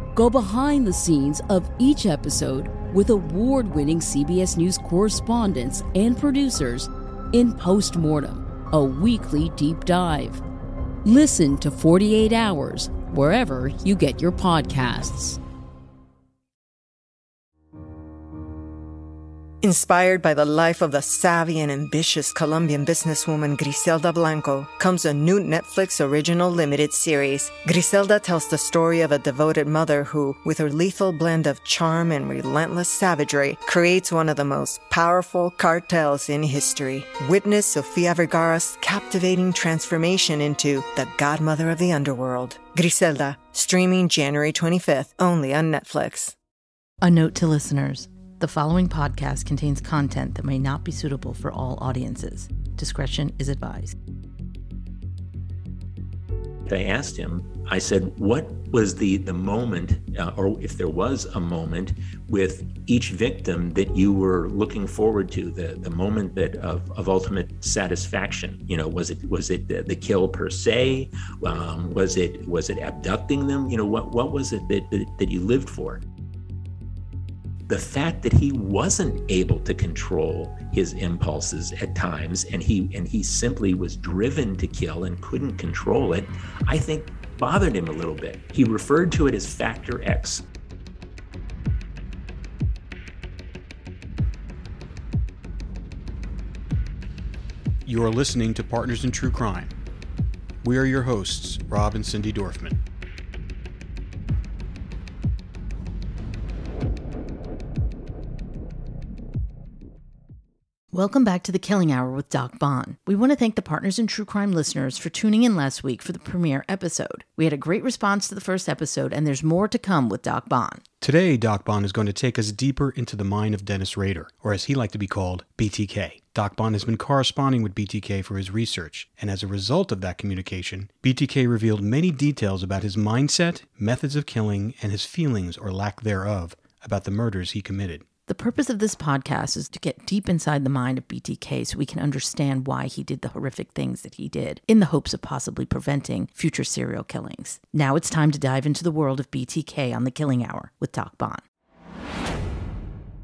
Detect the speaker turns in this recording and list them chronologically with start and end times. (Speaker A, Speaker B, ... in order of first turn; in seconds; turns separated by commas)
Speaker A: 0.1-10.4, Speaker A: 11.0-15.4, Speaker B: 19.6-46.3, Speaker C: 47.0-53.9, Speaker D: 56.7-76.0, Speaker D: 77.7-90.4, Speaker E: 97.8-99.7, Speaker E: 100.6-102.8, Speaker C: 110.9-120.8, Speaker E: 121.0-138.0, Speaker C: 138.3-151.4